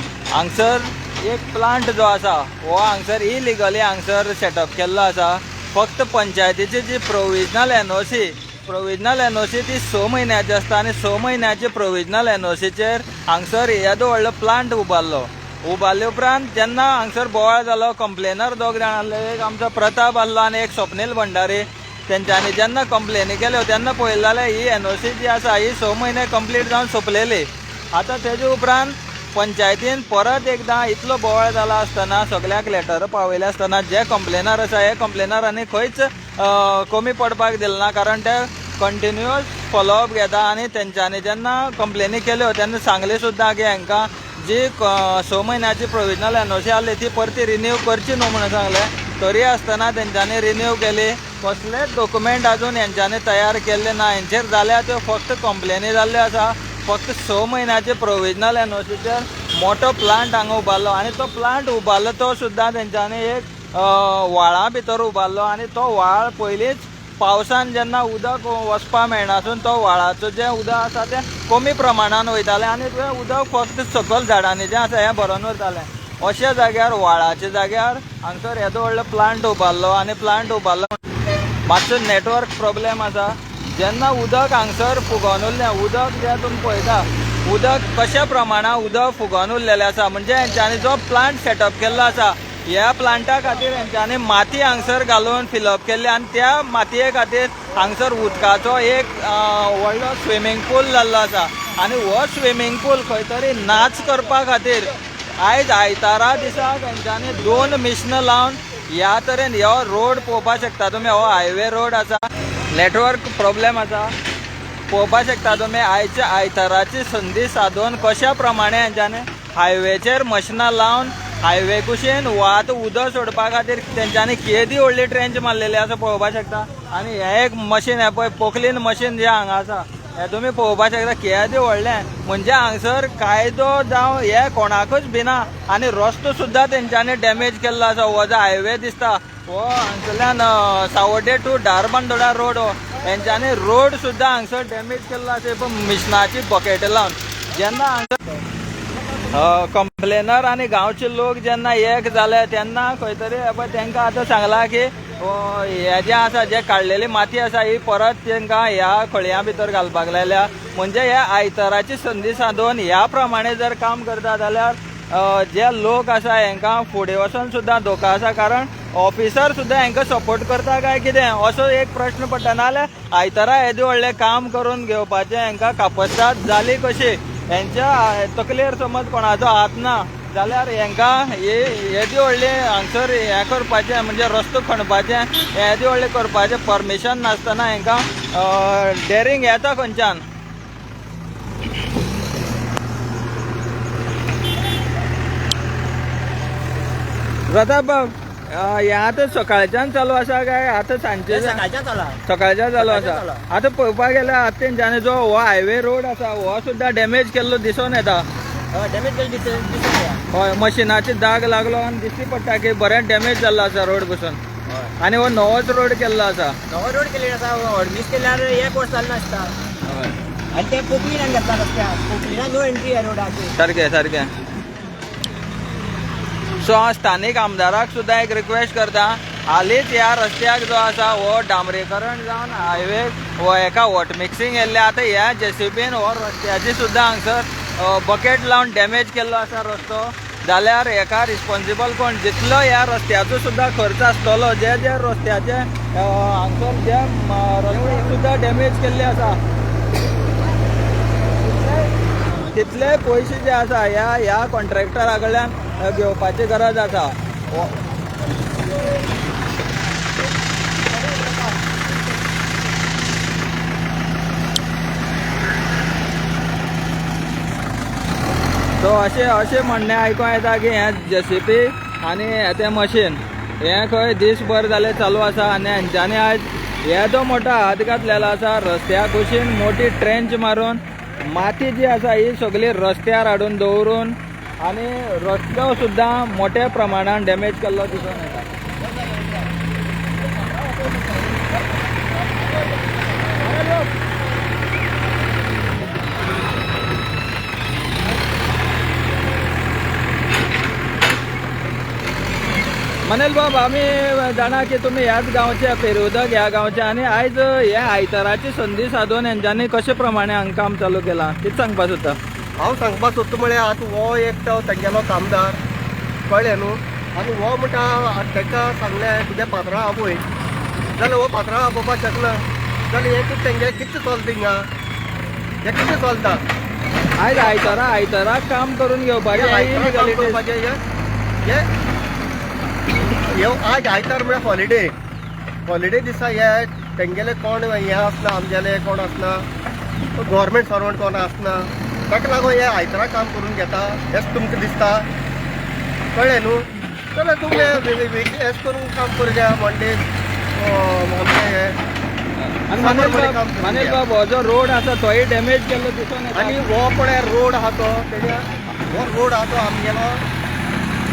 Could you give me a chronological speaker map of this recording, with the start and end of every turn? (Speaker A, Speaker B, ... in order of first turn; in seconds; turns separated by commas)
Speaker A: 0.3-81.0, Speaker A: 81.7-114.1, Speaker A: 114.9-148.2, Speaker A: 149.3-190.2, Speaker A: 197.5-201.6, Speaker B: 201.3-202.2, Speaker A: 202.2-208.2, Speaker B: 202.8-203.4, Speaker B: 208.7-210.2, Speaker A: 210.3-214.4, Speaker A: 215.0-216.6, Speaker B: 216.7-219.5, Speaker A: 219.8-220.2, Speaker B: 220.5-223.5, Speaker A: 223.6-224.3, Speaker A: 226.6-249.4, Speaker A: 252.4-257.7, Speaker A: 268.8-288.5, Speaker A: 293.4-293.9, Speaker A: 303.0-312.2, Speaker C: 312.6-315.6, Speaker C: 316.3-320.2, Speaker C: 321.0-324.6, Speaker C: 325.6-326.4, Speaker A: 327.2-330.4, Speaker C: 327.5-327.8, Speaker C: 329.3-330.8, Speaker C: 333.3-334.9, Speaker C: 335.7-339.4, Speaker C: 340.2-345.0, Speaker C: 346.1-346.6, Speaker C: 347.1-350.0, Speaker C: 350.5-351.8, Speaker A: 352.4-356.6, Speaker C: 352.8-354.0, Speaker C: 356.3-360.2